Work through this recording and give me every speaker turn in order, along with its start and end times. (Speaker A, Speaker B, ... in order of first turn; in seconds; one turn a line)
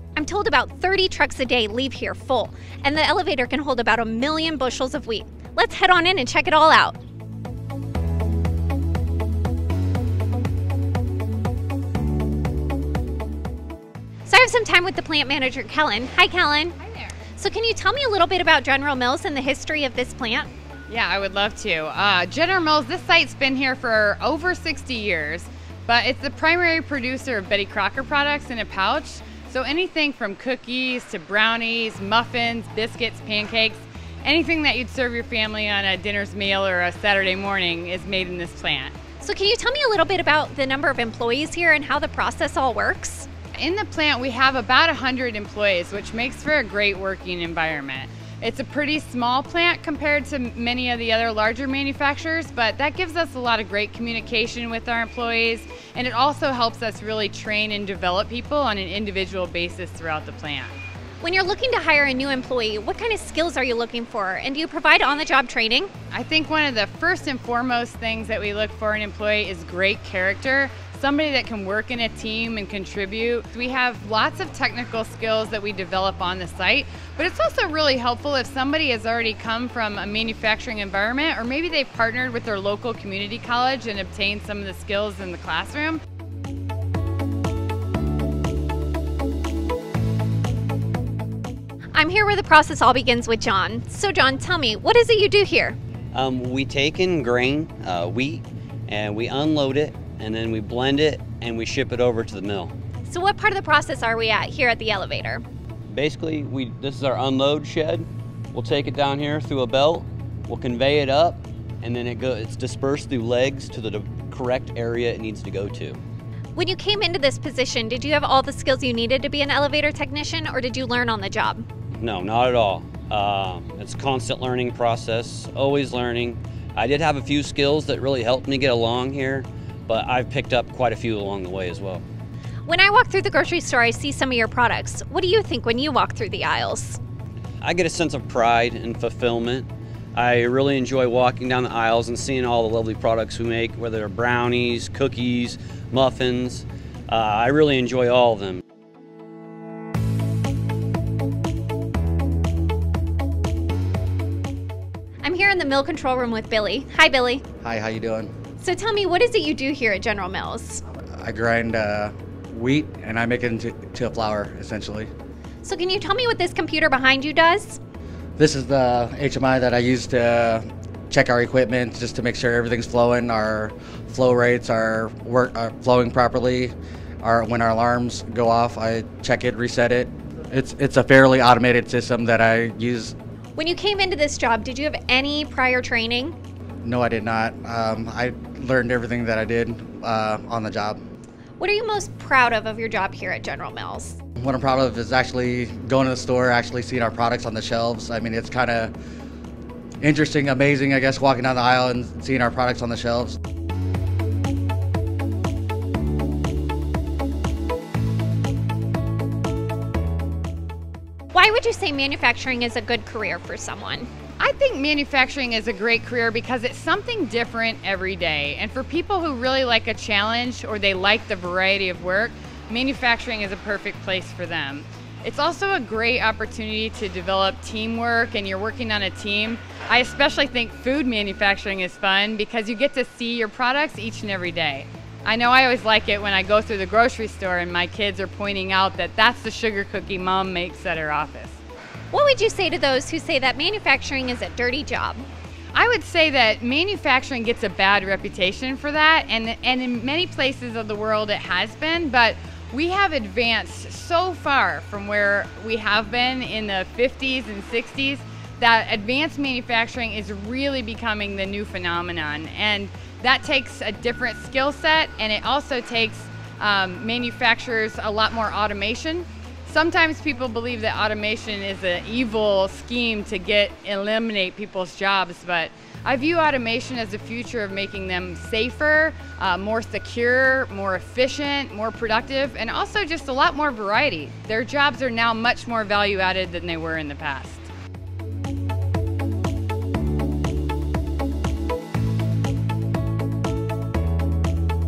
Speaker A: 0.2-7.0
Speaker A: 14.3-16.8
Speaker A: 17.4-20.5
Speaker B: 20.9-38.9
Speaker A: 39.2-43.3
Speaker B: 43.6-60.8
Speaker A: 61.2-65.9
Speaker B: 66.1-86.0
Speaker A: 92.0-95.8
Speaker C: 96.1-102.7
Speaker A: 103.1-105.4
Speaker C: 105.9-116.0
Speaker A: 116.5-121.7
Speaker C: 122.0-132.0
Speaker A: 132.7-137.0
Speaker C: 137.6-148.6
Speaker A: 155.2-157.4
Speaker D: 157.6-158.3
Speaker A: 158.6-160.8
Speaker D: 161.2-165.1
Speaker A: 165.6-167.8
Speaker D: 168.4-183.1
Speaker A: 183.6-186.4
Speaker D: 186.8-191.0
Speaker A: 191.6-194.2
Speaker D: 194.4-198.9
Speaker D: 200.0-203.4
Speaker A: 211.3-214.1
Speaker B: 214.4-241.6
Speaker A: 242.1-245.2
Speaker B: 245.7-287.7